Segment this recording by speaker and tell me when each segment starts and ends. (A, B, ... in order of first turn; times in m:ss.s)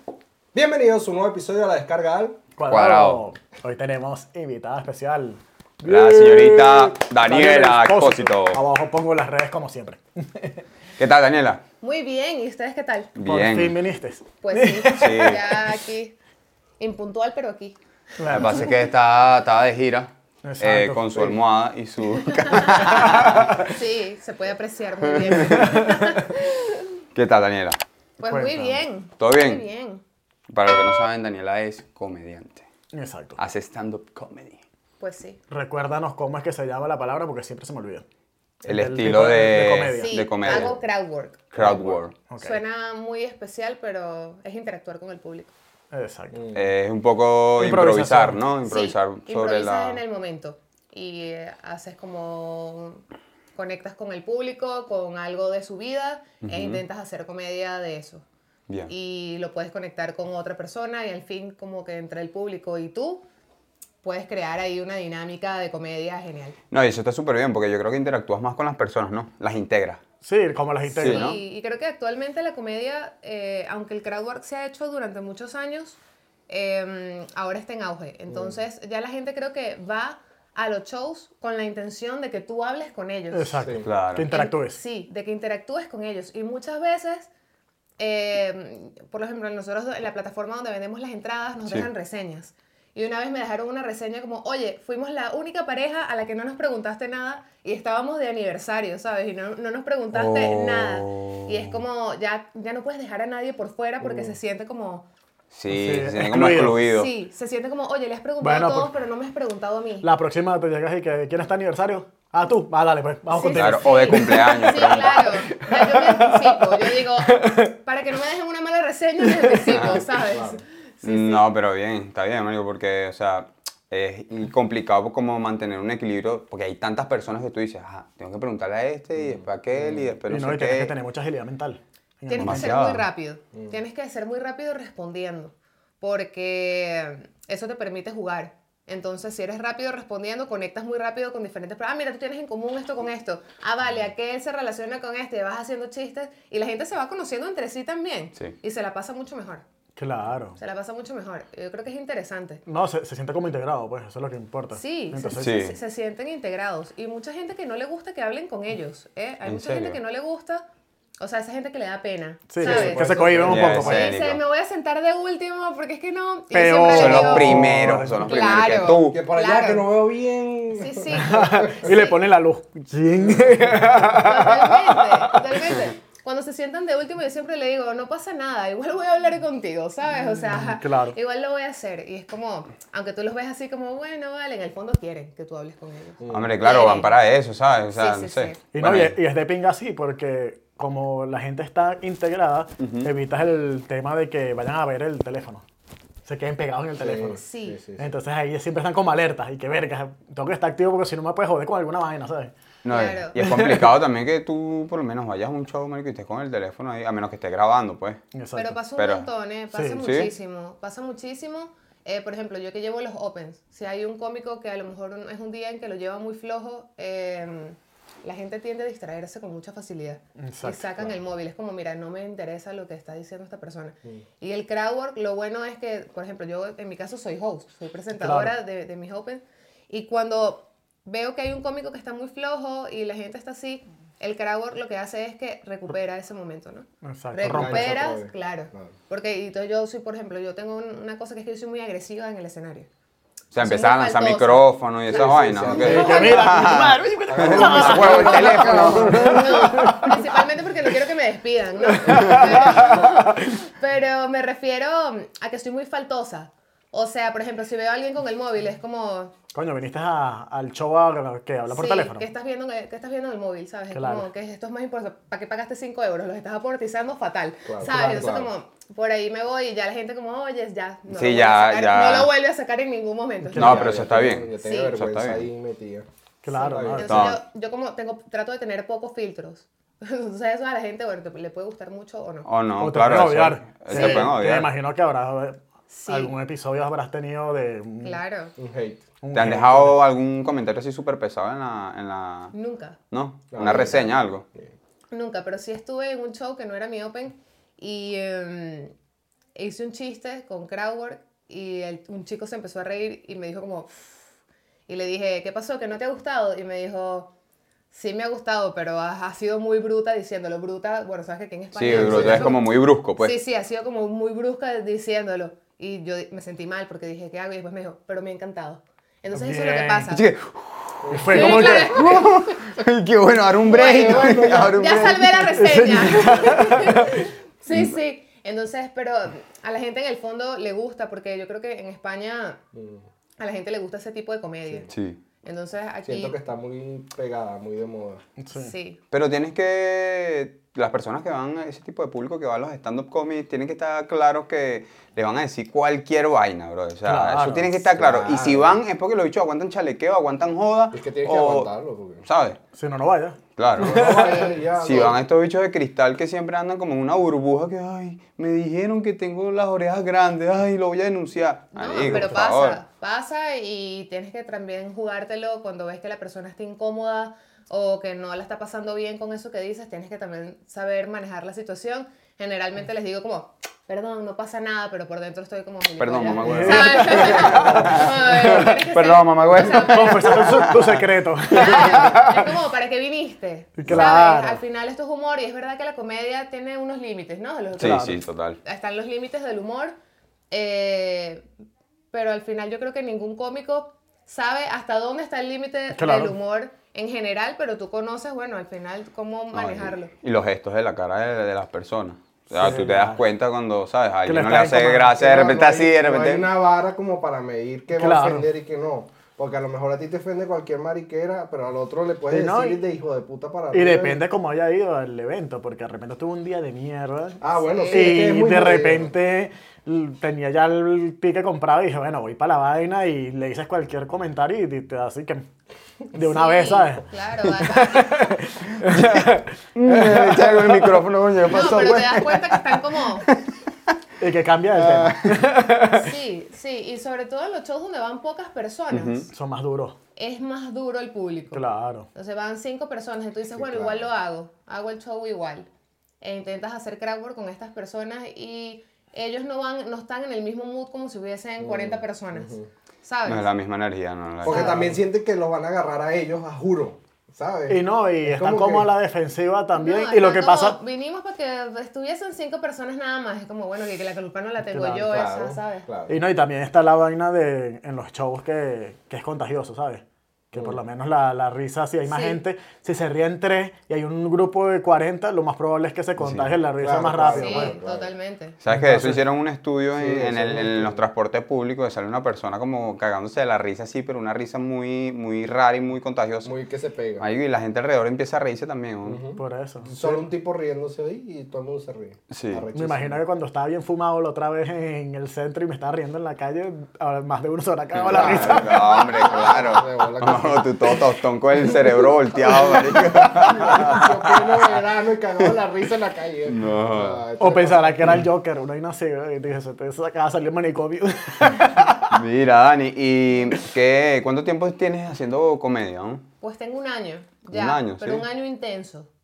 0:00.5-0:02.4 A
0:02.6-0:10.6 B
0:02.7-0:03.2 C
0:05.8-0:08.6 C
0:11.0-0:11.6 C
0:11.8-0:13.1 D
0:13.2-0:13.8 C
0:13.2-0:15.4 B
0:14.4-0:16.1 D
0:14.9-0:15.5 C
0:16.8-0:17.8 D
0:18.2-0:18.7 B
0:18.3-0:23.6 C
0:20.4-0:21.4 B
0:22.3-0:26.9 D
0:25.1-0:25.7 C
0:25.4-0:26.1 B
0:27.1-0:27.8 C
0:28.2-0:30.0 D
0:28.2-0:28.8 B
0:29.2-0:29.6 C
0:30.5-0:32.7 C
0:32.9-0:33.4 B
0:33.4-0:34.6 C
0:35.0-0:35.4 D
0:35.5-0:38.0 B
0:38.6-0:40.1 B
0:38.6-0:40.8 C
0:39.9-0:41.5 D
0:40.4-0:40.8 A
0:41.5-0:42.1 C
0:41.6-0:42.6 B
0:42.4-0:45.5 D
0:45.9-0:46.4 B
0:46.3-0:46.6 A
0:46.5-0:50.0 C
0:47.6-0:48.4 B
0:48.6-0:53.0 D
0:53.6-0:58.2 D
0:56.4-0:56.8 C
0:58.9-1:03.2 D
1:04.0-1:06.6 D
1:06.7-1:10.0 C
1:10.2-1:11.3 B
1:10.9-1:11.4 C
1:11.0-1:23.6 D
1:18.3-1:18.6 A
1:23.3-1:24.8 B
1:23.6-1:23.8 A
1:23.8-1:24.3 C
1:24.3-1:27.3 D
1:28.0-1:45.0 D
1:40.1-1:41.8 C
1:44.0-1:44.4 A
1:45.5-1:47.1 C
1:45.7-1:46.8 B
1:46.8-1:50.1 D
1:48.4-1:48.9 B
1:50.0-1:57.7 B
1:53.3-2:01.4 D
1:53.5-1:55.3 C
1:59.3-1:59.8 B
1:59.7-2:00.1 C
2:00.2-2:00.6 A
2:01.0-2:10.9 C
2:09.2-2:10.1 A
2:10.3-2:13.0 B
2:12.3-2:29.6 D
2:12.4-2:13.0 C
2:30.0-2:30.6 B
2:30.6-2:32.6 D
2:32.6-2:35.5 B
2:34.7-2:40.6 D
2:35.4-2:35.8 C
2:39.4-2:40.0 C
2:41.2-2:49.9 D
2:42.5-2:44.1 B
2:42.6-2:43.9 A
2:43.3-2:44.4 C
2:46.5-2:48.6 B
2:46.9-2:49.2 C
2:49.0-2:51.8 A
2:50.7-2:52.2 D
2:51.2-2:55.4 B
2:53.2-2:54.0 A
2:54.1-3:07.2 D
3:00.4-3:01.2 B
3:06.2-3:06.6 A
3:06.3-3:09.1 C
3:07.9-3:08.6 D
3:08.7-3:15.6 B
3:12.8-3:13.1 C
3:16.2-3:17.4 B
3:17.0-3:18.1 A
3:17.4-3:17.8 D
3:18.0-3:22.5 B
3:22.8-3:28.2 C
3:22.8-3:23.4 D
3:23.3-3:23.8 B
3:28.3-3:28.8 B
3:28.5-4:02.9 D
3:29.0-3:29.3 C
3:29.7-3:30.0 B
3:30.0-3:30.3 C
3:40.4-3:41.1 B
3:48.2-3:48.5 B
3:57.0-3:58.0 B
3:57.4-3:59.0 A
4:03.5-4:10.0 C
4:03.6-4:04.7 D
4:05.1-4:06.6 A
4:05.2-4:06.6 D
4:05.8-4:10.2 B
4:07.3-4:09.2 A
4:07.6-4:19.3 D
4:11.9-4:13.6 B
4:12.1-4:12.5 C
4:19.5-4:22.3 B
4:21.7-4:33.9 D
4:23.9-4:24.3 B
4:27.6-4:28.5 A
4:31.1-4:32.3 C
4:33.5-4:37.3 A
4:33.5-4:33.9 B
4:33.5-4:35.5 C
4:34.6-4:34.9 D
4:36.4-4:37.3 B
4:37.0-4:42.5 D
4:37.0-4:37.4 C
4:42.4-4:44.7 C
4:42.8-4:48.2 B
4:43.9-4:44.3 D
4:45.9-4:46.3 D
4:48.0-4:48.5 D
4:48.6-4:49.0 A
4:49.2-4:50.0 B
4:49.3-4:52.5 C
4:52.5-4:53.0 D
4:53.1-4:54.4 C
4:53.5-4:54.7 A
4:53.6-4:54.0 D
4:55.1-4:58.9 D
4:59.6-5:04.2 D
5:04.9-5:07.3 D
5:07.9-5:12.6 D
5:11.7-5:13.4 C
5:11.8-5:12.6 A
5:13.2-5:20.2 D
5:19.3-5:20.1 B
5:20.1-5:25.9 C
5:21.0-5:21.6 A
5:21.1-5:22.0 B
5:21.3-5:22.7 D
5:23.6-5:32.6 D
5:23.7-5:25.1 A
5:25.6-5:27.2 B
5:32.7-5:33.0 A
5:33.4-5:36.4 D
5:34.9-5:35.2 C
5:36.0-5:38.2 A
5:38.4-5:38.7 B
5:38.5-5:39.0 D
5:39.1-5:51.7 C
5:47.0-5:47.9 B
5:47.9-5:48.8 A
5:50.9-5:52.2 A
5:52.2-5:52.6 C
5:52.7-5:54.4 B
5:53.6-6:02.8 C
5:53.8-5:55.2 A
5:54.0-5:55.1 D
6:01.7-6:20.8 D
6:02.0-6:02.3 B
6:16.0-6:21.1 C
6:16.4-6:18.6 B
6:19.5-6:22.4 B
6:21.5-6:30.0 D
6:21.6-6:21.9 C
6:23.8-6:24.6 B
6:23.9-6:24.2 C
6:27.8-6:28.2 B
6:27.8-6:28.6 C
6:30.5-6:31.4 D
6:32.1-6:40.1 D
6:35.9-6:36.4 B
6:39.5-6:46.5 C
6:42.5-6:43.2 B
6:44.2-6:45.4 B
6:45.2-6:54.2 A
6:48.0-6:48.5 B
6:52.3-6:52.8 B
6:53.7-7:05.5 B
6:57.4-6:59.1 A
6:57.6-6:58.4 D
7:06.1-7:07.1 B
7:06.2-7:08.3 D
7:07.6-7:11.0 B
7:08.8-7:13.4 C
7:11.5-7:13.3 D
7:14.2-7:16.1 B
7:14.8-7:15.3 A
7:16.0-7:19.3 D
7:18.9-7:19.3 C
7:19.3-7:20.0 B
7:20.2-7:25.7 D
7:21.5-7:22.1 B
7:23.5-7:24.1 A
7:26.2-7:33.5 D
7:31.6-7:32.7 A
7:33.2-7:34.8 C
7:34.4-7:38.9 A
7:34.5-7:34.8 D
7:37.7-7:40.8 B
7:39.7-7:45.9 D
7:44.7-7:45.0 B
7:44.9-7:46.2 A
7:46.1-7:57.7 B
7:50.5-7:50.8 A
7:52.1-7:52.4 D
7:56.2-7:56.5 C
7:56.8-7:58.1 A
7:57.3-7:58.6 D
7:58.6-8:06.5 C
7:58.7-7:59.2 B
7:59.9-8:01.0 A
8:06.4-8:07.3 A
8:07.2-8:09.2 C
8:09.0-8:13.2 A
8:09.4-8:10.2 B
8:12.3-8:12.6 C
8:12.7-8:18.9 B
8:17.9-8:24.6 C
8:18.1-8:21.0 A
8:18.7-8:19.6 D
8:22.5-8:28.2 A
8:26.5-8:27.2 C
8:27.4-8:32.1 B
8:32.1-8:36.2 C
8:36.4-8:39.1 D
8:37.5-8:38.2 C